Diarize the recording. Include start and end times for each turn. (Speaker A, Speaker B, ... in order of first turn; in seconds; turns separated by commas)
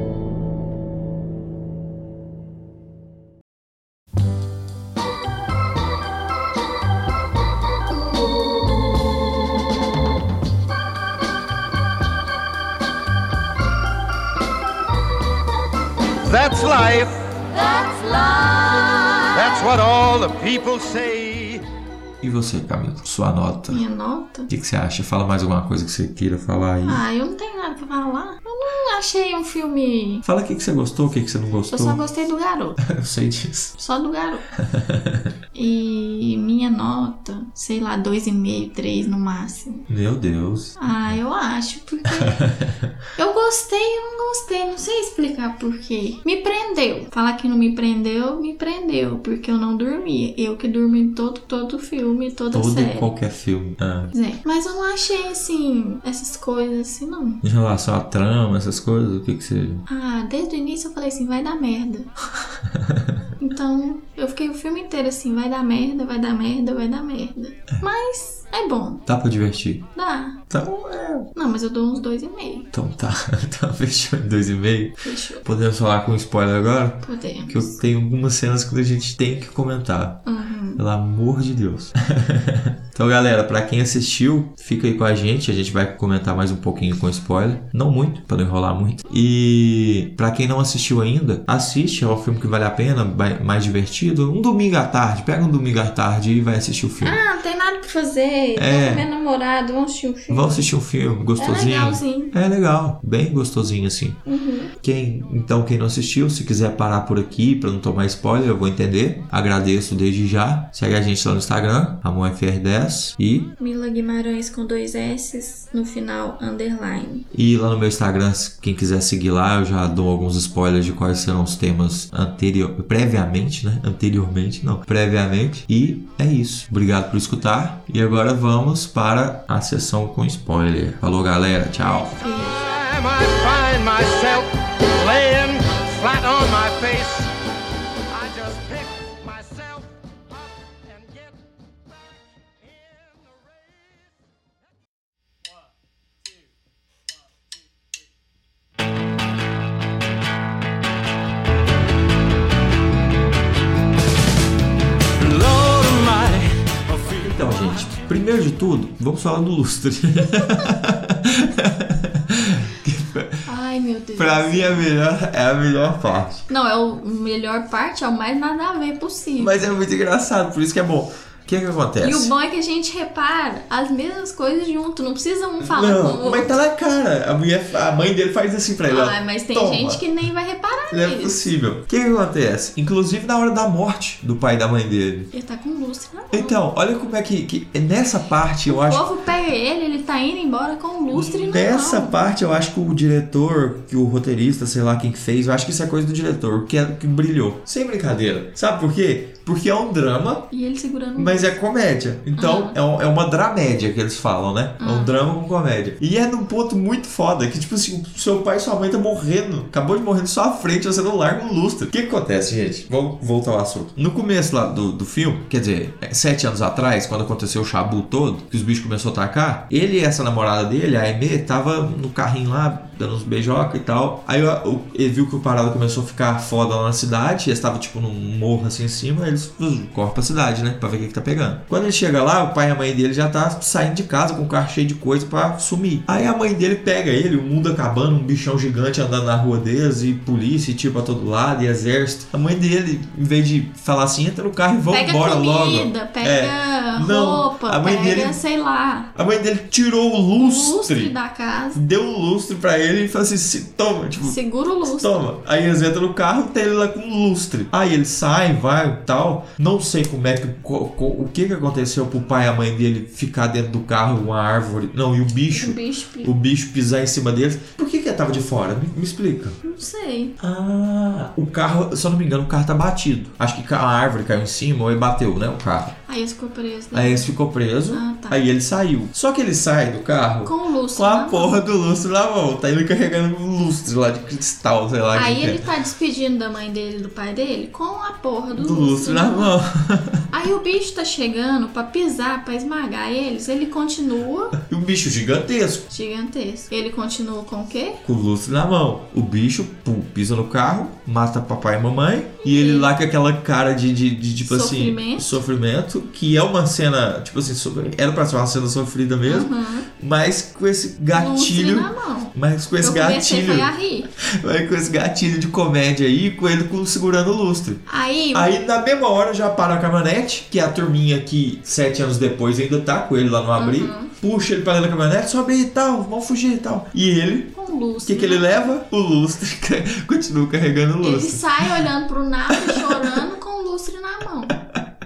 Speaker A: 16.2-21.6, Speaker B: 22.2-23.8, Speaker C: 23.7-24.5, Speaker B: 24.5-27.0, Speaker C: 26.8-30.2, Speaker B: 30.2-32.0, Speaker C: 31.7-32.8, Speaker B: 32.8-33.7, Speaker C: 33.8-34.5, Speaker B: 34.5-35.3, Speaker C: 35.5-39.9, Speaker B: 39.9-40.8, Speaker C: 40.8-42.4, Speaker B: 42.1-42.9, Speaker C: 43.1-53.1, Speaker B: 52.5-54.1, Speaker C: 54.1-57.4, Speaker B: 57.4-59.8, Speaker C: 59.9-62.1, Speaker B: 62.6-63.2, Speaker C: 63.4-69.1, Speaker B: 69.1-69.8, Speaker C: 69.9-70.4, Speaker B: 70.5-71.3, Speaker C: 71.3-72.7, Speaker B: 72.7-80.2, Speaker C: 75.0-75.5, Speaker C: 77.0-77.8, Speaker C: 80.2-80.8, Speaker B: 80.8-97.2, Speaker C: 97.0-100.7, Speaker B: 98.5-99.1, Speaker B: 100.3-104.2, Speaker C: 101.4-102.3, Speaker C: 104.2-104.7, Speaker B: 104.8-113.5, Speaker C: 113.6-117.3, Speaker B: 117.3-132.2, Speaker C: 132.0-132.7, Speaker A: 132.3-137.3, Speaker A: 138.1-141.4, Speaker A: 142.6-144.1, Speaker A: 155.2-158.0, Speaker B: 157.2-163.4, Speaker C: 163.4-164.9, Speaker B: 164.2-166.4, Speaker C: 166.5-169.7, Speaker B: 169.4-172.3, Speaker C: 172.0-176.5, Speaker B: 175.6-180.0, Speaker C: 178.8-181.4, Speaker B: 180.9-185.3, Speaker C: 185.3-186.6, Speaker B: 186.3-189.1, Speaker C: 188.7-192.2, Speaker B: 191.1-200.5, Speaker C: 200.5-201.6, Speaker B: 201.2-248.4, Speaker C: 202.3-202.8, Speaker C: 204.8-205.2, Speaker C: 244.9-249.1, Speaker B: 249.1-251.1, Speaker C: 250.4-251.8, Speaker B: 251.7-269.6, Speaker C: 254.2-255.3, Speaker C: 265.5-266.3, Speaker C: 269.6-270.4, Speaker B: 270.4-275.9, Speaker C: 276.1-277.3, Speaker B: 276.9-285.6, Speaker C: 277.9-278.4, Speaker C: 280.4-281.6, Speaker C: 285.1-289.6, Speaker B: 288.5-290.2, Speaker C: 290.3-294.6, Speaker B: 294.6-295.9, Speaker C: 295.9-298.0, Speaker B: 298.0-327.5, Speaker C: 302.4-302.9, Speaker C: 304.4-305.4, Speaker C: 309.2-309.9, Speaker C: 311.1-314.1, Speaker C: 317.9-318.5, Speaker C: 323.6-324.1, Speaker C: 327.5-328.7, Speaker B: 328.0-331.9, Speaker C: 331.0-334.6, Speaker B: 332.5-333.2, Speaker B: 334.5-334.8